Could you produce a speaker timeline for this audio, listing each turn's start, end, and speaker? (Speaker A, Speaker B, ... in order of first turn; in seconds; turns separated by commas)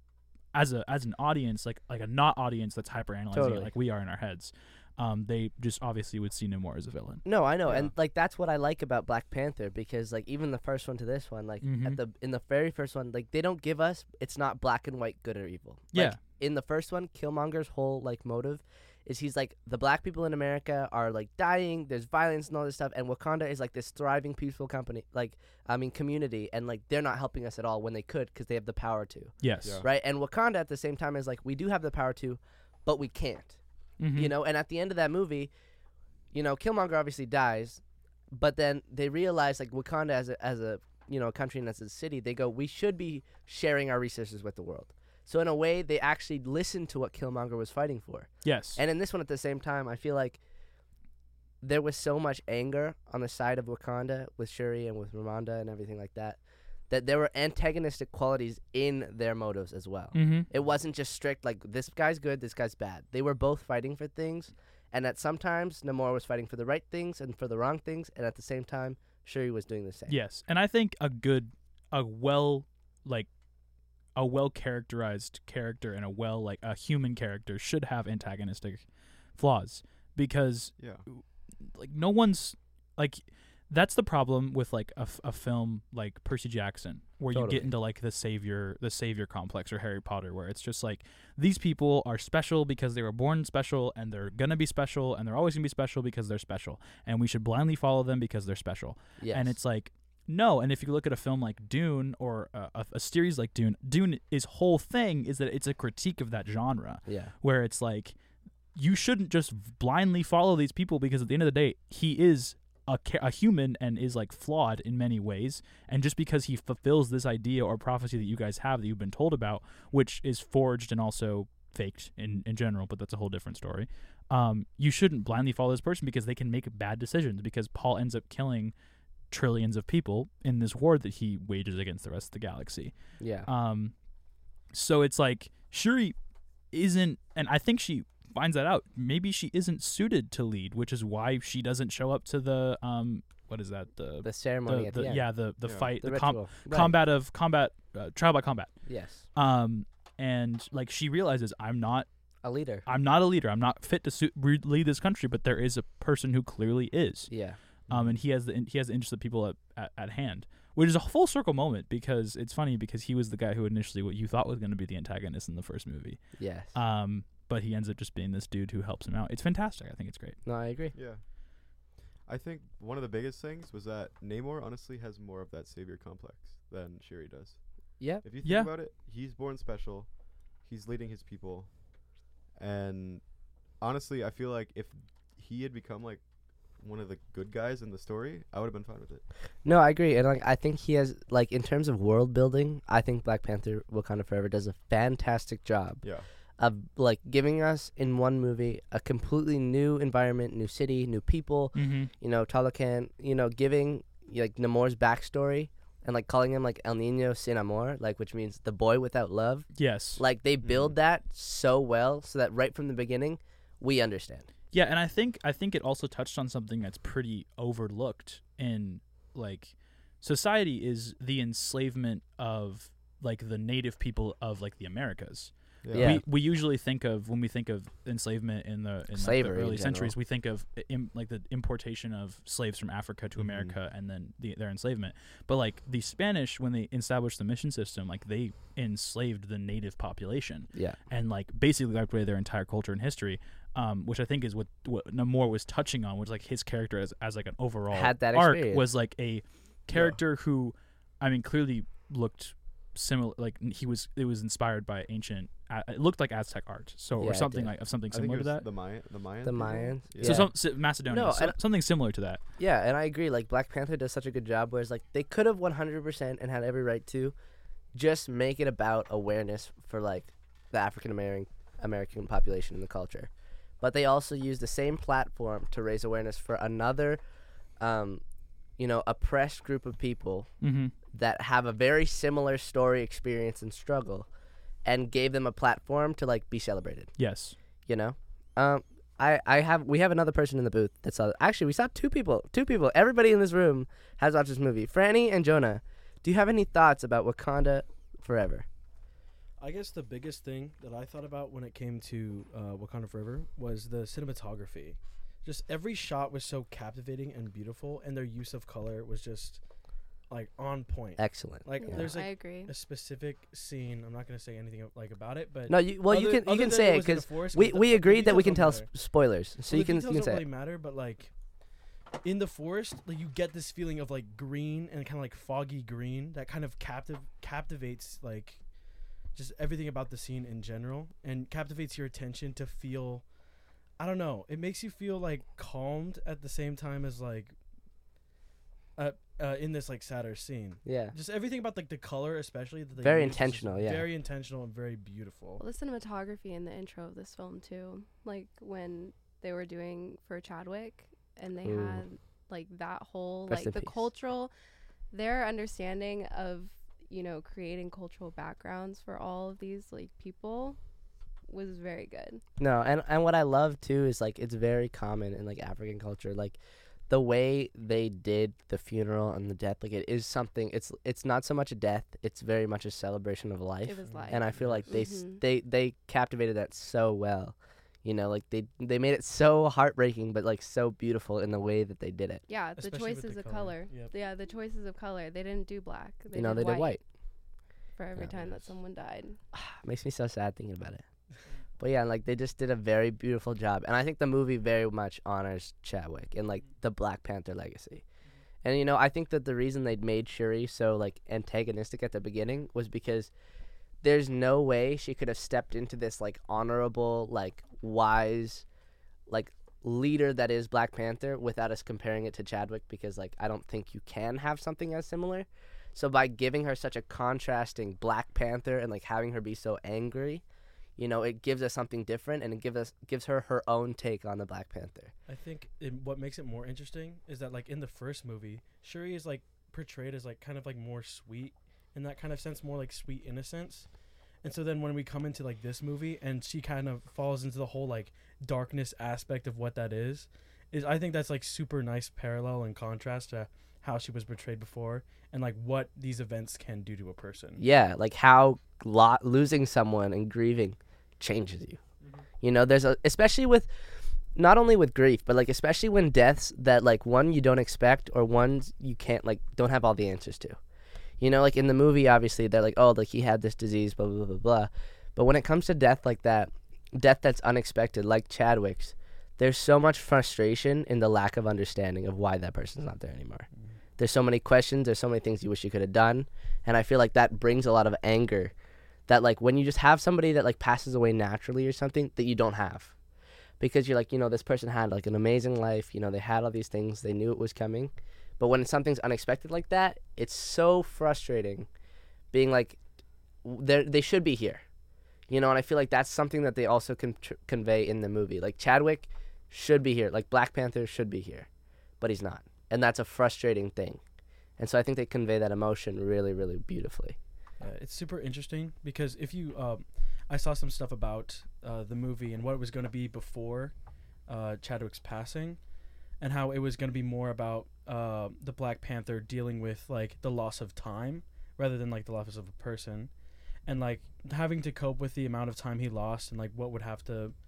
Speaker A: 0.5-7.2, Speaker B: 3.3-3.7, Speaker B: 7.2-33.6, Speaker C: 7.7-7.9, Speaker A: 11.6-12.0, Speaker A: 15.9-16.2, Speaker A: 29.4-29.8, Speaker A: 34.0-34.3, Speaker B: 34.1-35.5, Speaker B: 36.3-37.8, Speaker B: 38.3-50.4, Speaker A: 48.4-48.8, Speaker B: 51.6-56.4, Speaker B: 56.9-70.2, Speaker A: 60.1-60.5, Speaker A: 70.1-73.3, Speaker A: 74.2-78.8, Speaker A: 79.4-108.2, Speaker C: 80.8-81.0, Speaker B: 87.3-87.7, Speaker B: 99.2-99.5, Speaker B: 107.1-107.3, Speaker A: 108.8-128.7, Speaker A: 129.3-132.9, Speaker B: 133.2-133.5, Speaker A: 133.5-133.9, Speaker A: 134.7-136.2, Speaker A: 136.7-148.7, Speaker B: 144.2-145.3, Speaker C: 145.6-145.9, Speaker B: 146.0-147.0, Speaker B: 148.9-149.2, Speaker A: 149.3-152.1, Speaker B: 152.4-152.8, Speaker A: 152.9-157.3, Speaker B: 157.3-157.6, Speaker A: 157.9-170.4, Speaker C: 157.9-158.2, Speaker B: 166.4-166.8, Speaker B: 170.4-170.9, Speaker C: 170.9-171.2, Speaker C: 172.3-177.6, Speaker C: 178.1-180.1, Speaker A: 178.4-178.7, Speaker C: 180.6-181.7, Speaker C: 182.6-183.2, Speaker C: 183.8-186.2, Speaker C: 186.8-189.2, Speaker B: 189.6-196.0, Speaker B: 196.6-214.5, Speaker A: 201.7-202.1, Speaker A: 209.8-210.2, Speaker C: 210.6-210.9, Speaker A: 214.7-258.6, Speaker C: 225.8-226.2, Speaker B: 225.9-226.2, Speaker B: 229.2-230.1, Speaker C: 233.4-233.8, Speaker B: 247.9-248.9, Speaker C: 249.9-250.2, Speaker B: 257.2-257.7, Speaker C: 258.1-260.5, Speaker B: 259.4-261.6, Speaker A: 260.2-262.4, Speaker B: 262.6-267.3, Speaker B: 267.9-277.2, Speaker B: 277.8-278.2, Speaker B: 278.8-280.5, Speaker A: 280.6-280.9, Speaker B: 281.1-284.3, Speaker B: 284.9-287.1, Speaker A: 287.2-287.6, Speaker B: 287.9-298.7, Speaker D: 299.6-309.6, Speaker D: 310.3-318.9, Speaker B: 311.2-312.1, Speaker E: 311.8-312.7, Speaker B: 315.7-320.4, Speaker D: 319.7-321.3, Speaker D: 322.2-328.6, Speaker D: 329.3-333.2, Speaker D: 334.0-337.5, Speaker D: 339.0-345.6, Speaker B: 340.9-341.1, Speaker B: 343.0-344.1, Speaker E: 345.6-354.5, Speaker B: 351.6-352.0, Speaker B: 353.5-354.0, Speaker E: 355.1-360.8, Speaker E: 361.5-362.4, Speaker B: 362.6-366.6, Speaker B: 367.1-382.4, Speaker E: 373.8-375.4, Speaker D: 374.0-374.9, Speaker E: 382.5-387.0, Speaker D: 382.8-384.1, Speaker B: 386.3-387.0, Speaker E: 388.0-389.4, Speaker D: 388.3-388.7, Speaker B: 389.5-391.0, Speaker B: 391.8-398.0, Speaker B: 398.6-403.3, Speaker B: 404.0-408.6, Speaker B: 409.3-420.4, Speaker B: 421.0-425.1, Speaker D: 425.3-433.9, Speaker D: 434.4-447.6, Speaker B: 447.6-451.8, Speaker B: 452.4-453.7, Speaker B: 454.4-460.6, Speaker B: 461.2-473.5, Speaker B: 474.0-478.5, Speaker B: 479.1-482.9, Speaker B: 483.6-491.7, Speaker B: 492.3-492.8, Speaker B: 493.4-494.6, Speaker B: 495.3-501.5, Speaker B: 502.0-504.0, Speaker B: 504.6-507.2, Speaker D: 507.6-513.7, Speaker D: 514.3-515.6, Speaker D: 516.2-523.1, Speaker D: 523.7-527.3